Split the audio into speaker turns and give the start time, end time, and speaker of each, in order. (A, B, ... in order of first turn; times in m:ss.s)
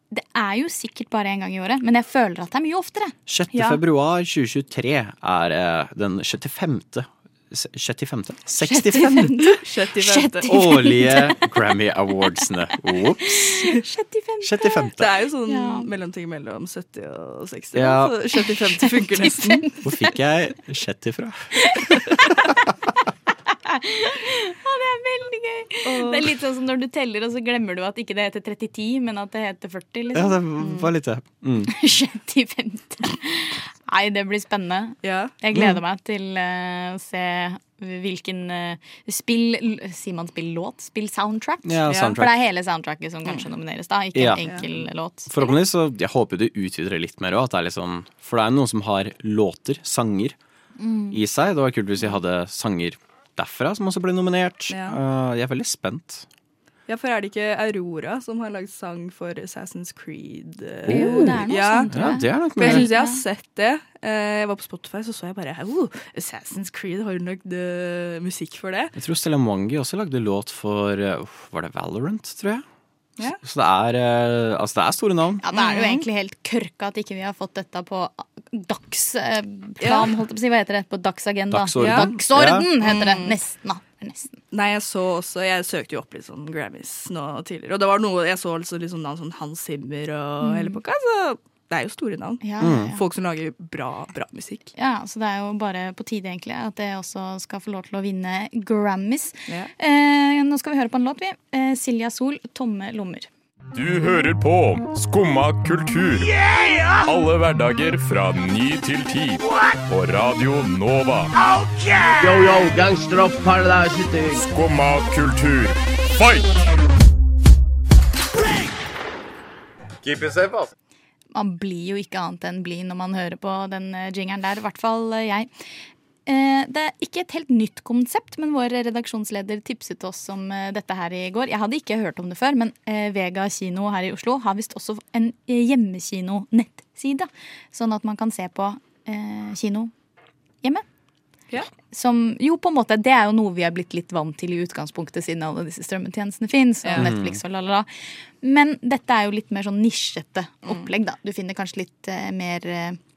0:00.1-0:03.8 A
0:03.3-0:09.3 B
0:08.6-0:11.5 A
0:09.0-0:10.5 C
0:10.4-0:13.5 B
0:13.2-0:14.9 A
0:14.4-0:15.1 B
0:15.0-0:19.8 C
0:15.5-0:15.9 A
0:17.7-0:18.2 B
0:18.4-0:19.6 A
0:19.8-0:22.3 B
0:21.6-0:22.3 A
0:23.6-0:30.4 A
0:25.8-0:26.3 C
0:30.1-0:31.7 B
0:30.6-0:30.9 C
0:31.7-0:45.5 A
0:35.0-0:35.3 C
0:35.5-0:35.8 B
0:41.6-0:42.3 B
0:41.9-0:42.2 C
0:44.1-0:44.4 B
0:45.3-0:50.4 B
0:50.8-0:51.2 A
0:51.1-0:56.2 B
0:54.7-0:55.0 C
0:56.9-1:02.0 C
1:00.9-1:02.9 B
1:00.9-1:03.2 A
1:02.6-1:08.9 C
1:08.9-1:12.6 B
1:13.4-1:15.4 B
1:15.4-1:24.4 A
1:15.5-1:16.0 C
1:19.8-1:20.1 C
1:21.5-1:22.7 B
1:21.8-1:22.1 C
1:22.8-1:23.3 C
1:24.5-1:34.7 C
1:30.4-1:30.8 A
1:32.4-1:33.0 A
1:32.6-1:33.0 B
1:34.8-1:43.3 A
1:43.7-1:46.4 D
1:47.0-1:51.8 D
1:52.2-1:54.4 E
1:54.4-1:56.6 D
2:00.0-2:00.7 D
2:01.3-2:05.5 A
2:06.2-2:19.9 A
2:21.9-2:27.9 A
2:26.8-2:27.1 C
2:26.9-2:27.4 B
2:28.4-2:33.0 A